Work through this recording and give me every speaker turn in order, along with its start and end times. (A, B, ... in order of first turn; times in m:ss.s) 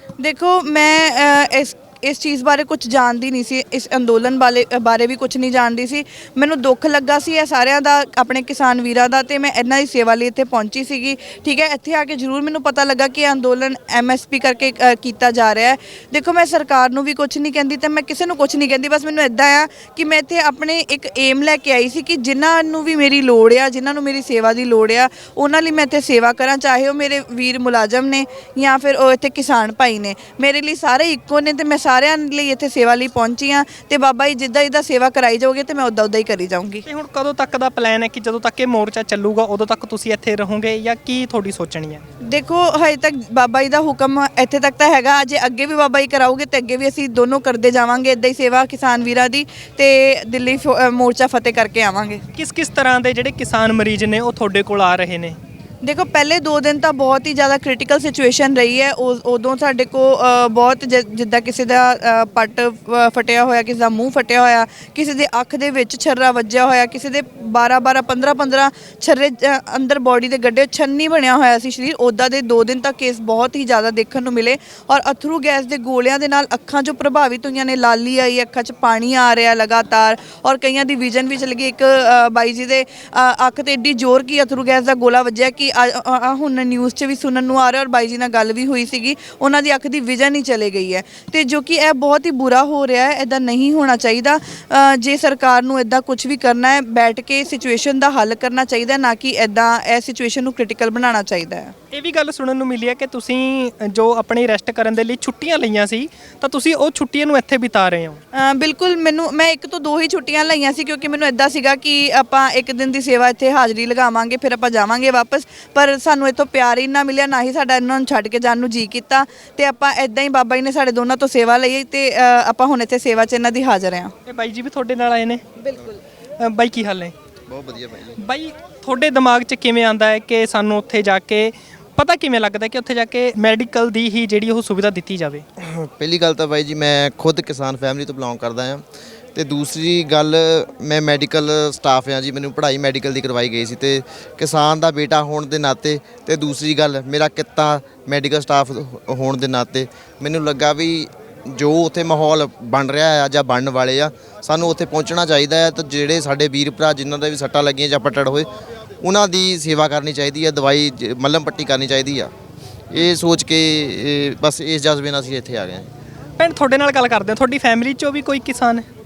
0:00.2-0:36.8 A
0:36.8-0:42.0 B
0:42.2-0:52.2 A
0:52.3-0:55.4 B
0:55.8-1:41.7 A
1:41.9-1:48.2 B
1:48.3-2:04.1 A
2:04.3-2:05.4 B
2:06.4-2:07.1 B
2:07.5-2:08.2 C
2:08.2-2:15.4 B
2:15.6-2:38.5 C
2:39.0-2:42.3 C
2:42.9-2:45.9 C
2:46.4-2:48.8 B